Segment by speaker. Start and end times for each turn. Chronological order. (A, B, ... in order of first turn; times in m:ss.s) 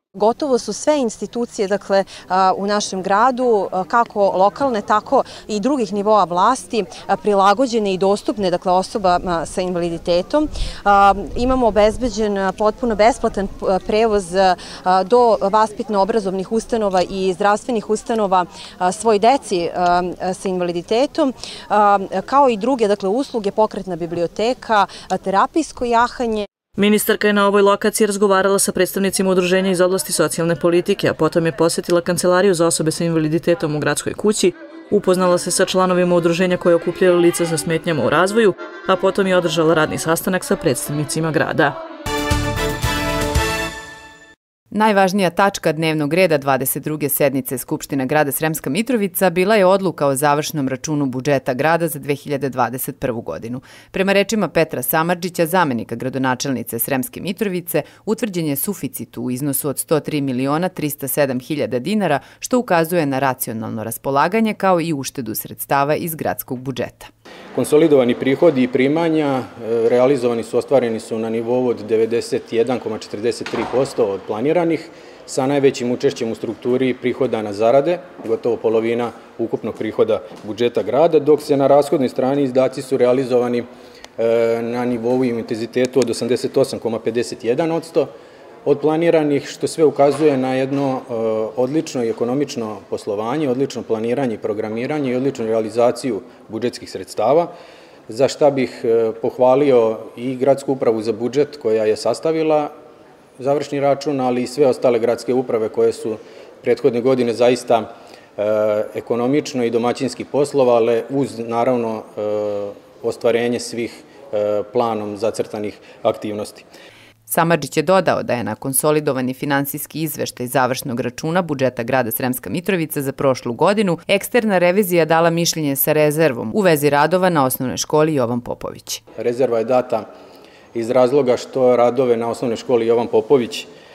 0:00.1-0:26.4 A
0:26.8-0:41.8 B
0:44.7-1:07.1 C
1:07.5-1:23.7 D
1:24.2-1:28.1 D
1:28.6-1:37.5 D
1:38.1-1:42.7 D
1:43.4-1:56.6 D
1:57.3-2:09.0 C
2:09.2-2:10.1 D
2:10.7-2:13.7 D